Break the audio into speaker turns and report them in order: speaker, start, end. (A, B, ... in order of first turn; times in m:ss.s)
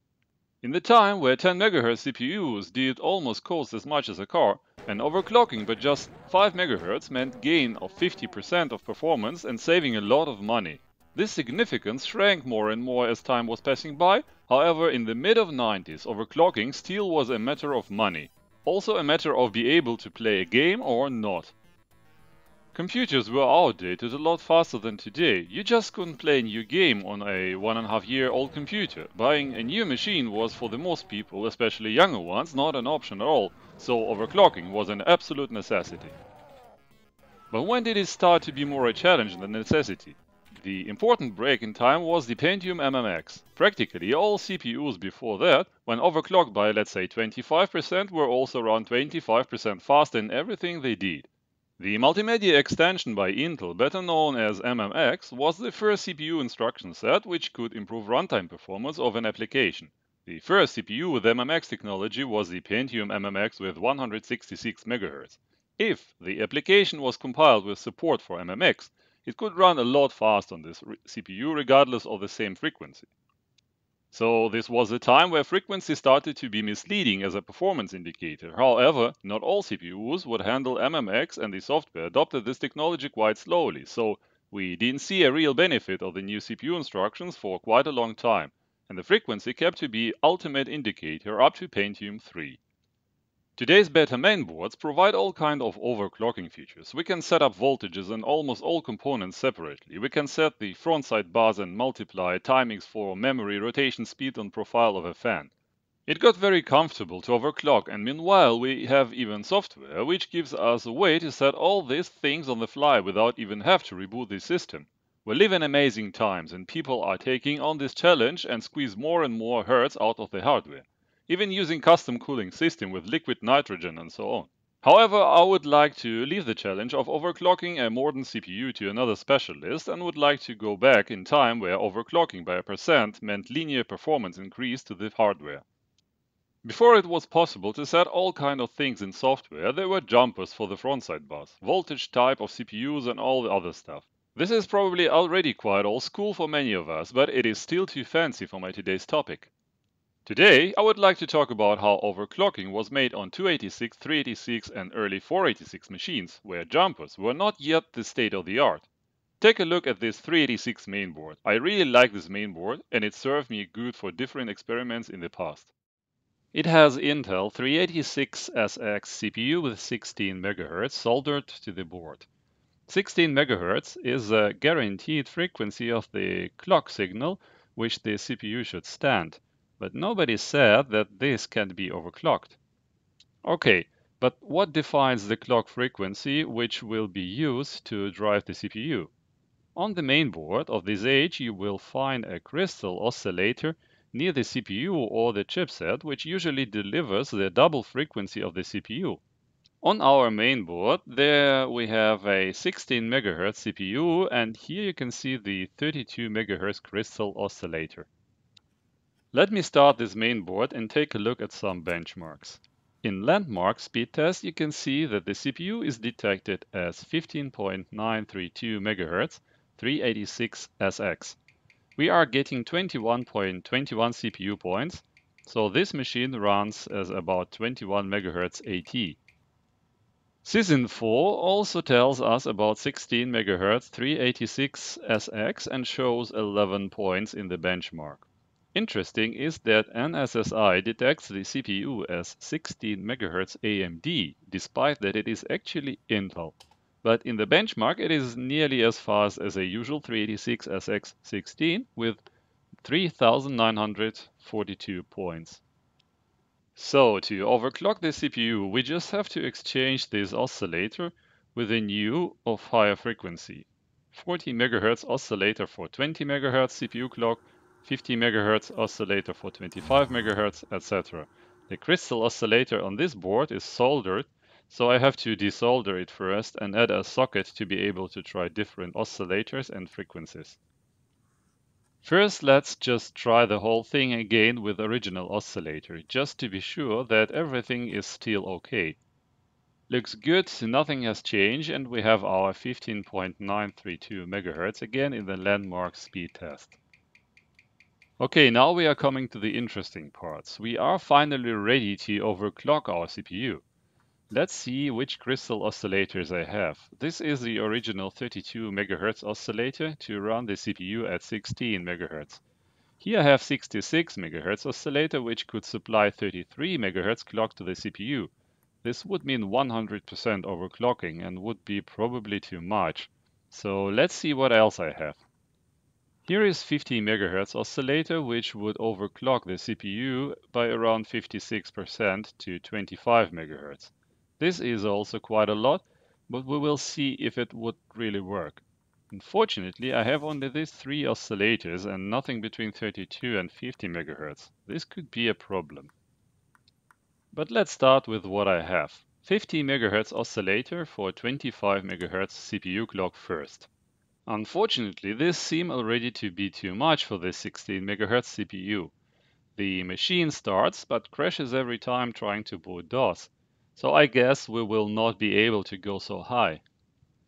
0:00.6-0:21.5 A
0:22.7-0:36.2 A
0:37.5-1:13.1 A
1:14.1-1:32.6 A
1:33.6-1:45.5 A
1:46.1-2:15.6 A
2:16.6-2:29.5 A
2:30.2-2:38.9 A
2:39.4-2:45.7 A
2:46.5-2:52.3 A
2:52.9-3:02.6 A
3:03.4-3:09.1 A
3:09.7-3:19.2 A
3:19.8-3:28.1 A
3:29.3-3:41.4 A
3:42.0-3:49.2 A
3:50.4-4:12.2 A
4:12.8-4:15.6 A
4:16.8-4:40.6 A
4:42.0-4:49.0 A
4:49.9-4:56.8 A
4:58.2-5:03.6 A
5:04.3-5:12.4 A
5:13.0-5:18.3 A
5:18.8-5:25.2 A
5:26.2-5:45.9 A
5:47.3-5:53.7 A
5:54.3-5:58.9 A
5:59.6-6:06.6 A